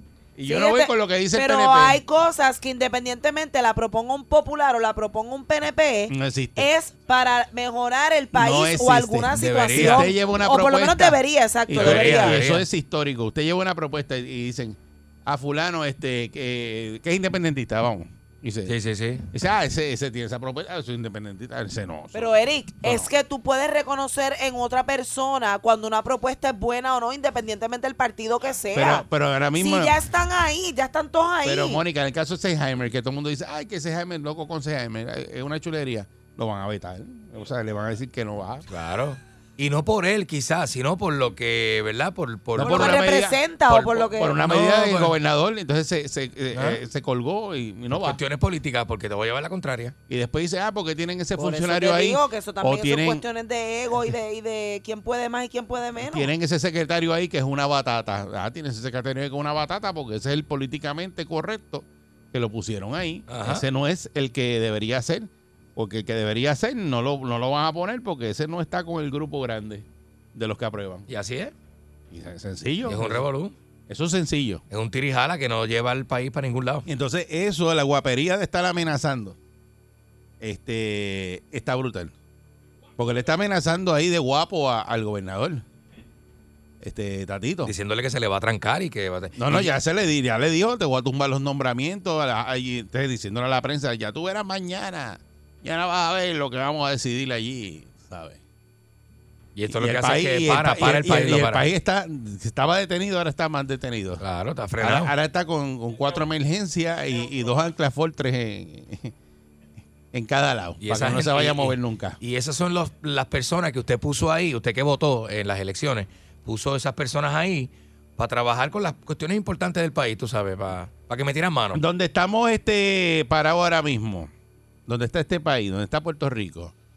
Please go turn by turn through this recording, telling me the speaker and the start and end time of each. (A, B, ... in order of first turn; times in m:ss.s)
0:00.4-0:02.0 A
0:00.4-0:12.4 B
0:06.1-0:06.7 A
0:08.3-0:18.7 A
0:09.3-0:10.1 C
0:11.7-0:12.6 C
0:18.6-0:19.2 C
0:19.3-0:23.1 A
0:22.1-0:29.0 B
0:28.7-0:30.0 A
0:29.6-0:31.8 B
0:31.4-0:38.6 A
0:38.7-0:45.1 C
0:42.6-0:43.4 A
0:42.6-0:44.4 B
0:44.1-0:48.2 A
0:46.5-0:46.8 C
0:47.9-0:49.9 C
0:50.1-0:53.2 A
0:51.4-0:56.3 B
0:56.0-1:11.1 A
1:03.3-1:03.6 C
1:11.1-1:11.5 C
1:12.1-1:13.3 A
1:12.8-1:13.6 C
1:13.9-1:14.6 A
1:14.7-1:16.8 C
1:16.8-1:19.4 A
1:20.4-1:22.1 A
1:23.0-1:25.6 A
1:26.8-1:27.7 A
1:27.6-1:29.7 C
1:29.4-1:38.4 A
1:39.6-1:41.7 C
1:39.7-1:44.2 A
1:44.2-1:45.1 C
1:44.8-1:49.1 A
1:50.1-1:52.2 A
1:50.8-2:01.8 C
2:01.7-2:04.3 A
2:04.9-2:06.7 A